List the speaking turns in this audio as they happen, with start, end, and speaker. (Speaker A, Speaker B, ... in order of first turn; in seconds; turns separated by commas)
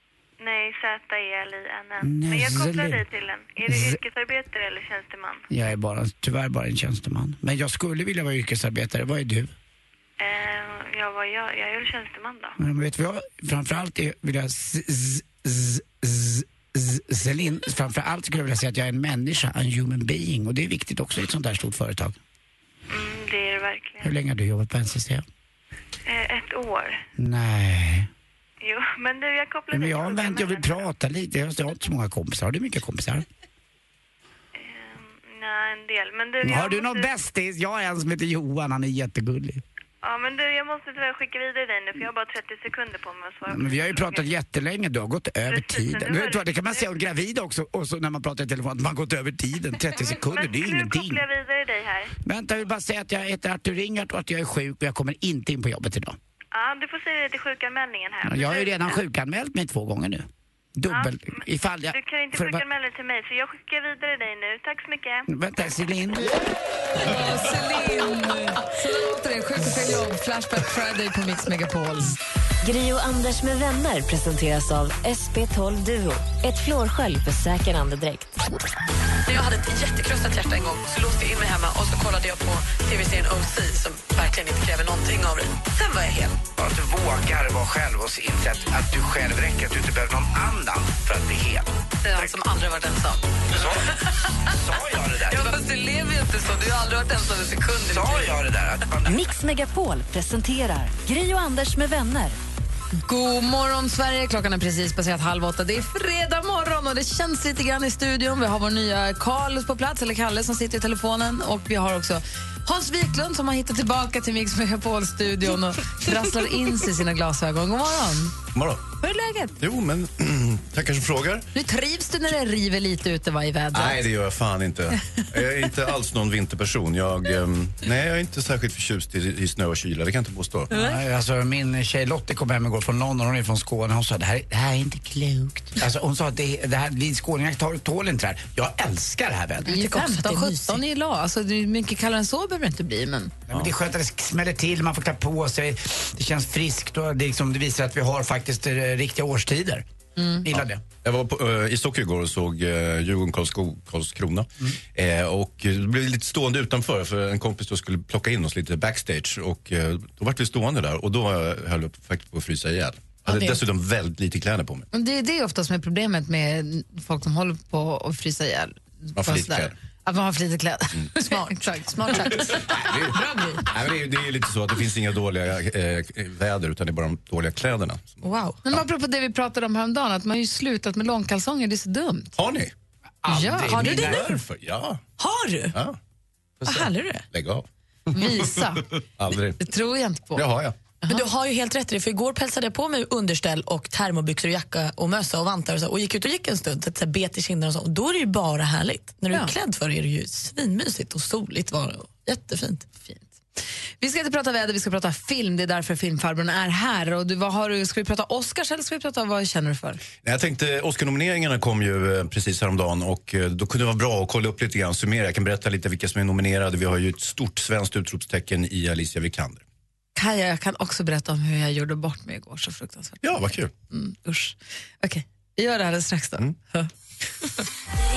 Speaker A: 0.4-5.5, Speaker B: 2.0-3.0, Speaker B: 3.6-4.0, Speaker B: 5.5-9.5, Speaker A: 10.2-12.6, Speaker B: 12.6-22.2, Speaker A: 22.9-24.1, Speaker B: 24.0-25.2, Speaker A: 26.1-27.0, Speaker B: 27.2-28.1, Speaker A: 28.6-30.9, Speaker B: 29.7-33.3, Speaker A: 34.6-37.1, Speaker B: 36.4-39.6, Speaker A: 40.0-44.4, Speaker B: 43.5-51.2, Speaker A: 45.5-46.9, Speaker A: 49.9-52.1, Speaker B: 52.2-56.2, Speaker A: 56.5-59.0, Speaker B: 58.2-62.6, Speaker A: 60.9-61.2, Speaker A: 61.9-65.3, Speaker B: 65.3-66.4, Speaker C: 67.0-72.2, Speaker D: 72.6-78.4, Speaker E: 79.3-86.3, Speaker B: 86.6-92.3, Speaker C: 92.0-93.2, Speaker B: 93.5-95.6, Speaker C: 95.3-98.4, Speaker B: 97.9-99.3, Speaker D: 99.1-102.4, Speaker C: 103.0-118.4, Speaker F: 118.5-118.8, Speaker C: 119.0-119.6, Speaker F: 119.6-121.5, Speaker C: 121.5-124.1, Speaker F: 123.7-130.7, Speaker B: 130.7-139.8, Speaker E: 139.7-140.8, Speaker C: 139.7-143.3, Speaker B: 143.5-149.9, Speaker C: 150.2-150.5, Speaker B: 150.4-150.8, Speaker F: 150.5-164.9, Speaker E: 163.3-163.6, Speaker C: 164.9-172.6, Speaker F: 169.2-169.7, Speaker E: 171.2-173.7, Speaker F: 172.1-178.2, Speaker E: 178.2-178.6, Speaker C: 178.7-182.3, Speaker F: 182.4-182.7, Speaker B: 183.2-184.3, Speaker C: 183.3-184.1, Speaker F: 183.7-185.0, Speaker E: 183.8-184.2, Speaker E: 185.2-185.8, Speaker E: 186.7-187.3, Speaker F: 186.7-189.6, Speaker C: 188.1-188.9, Speaker C: 189.6-190.5, Speaker F: 190.4-190.8, Speaker E: 191.1-202.9, Speaker C: 203.0-203.3, Speaker C: 204.0-210.0, Speaker F: 210.2-219.6, Speaker C: 220.2-223.3, Speaker F: 223.2-223.7, Speaker C: 223.9-226.9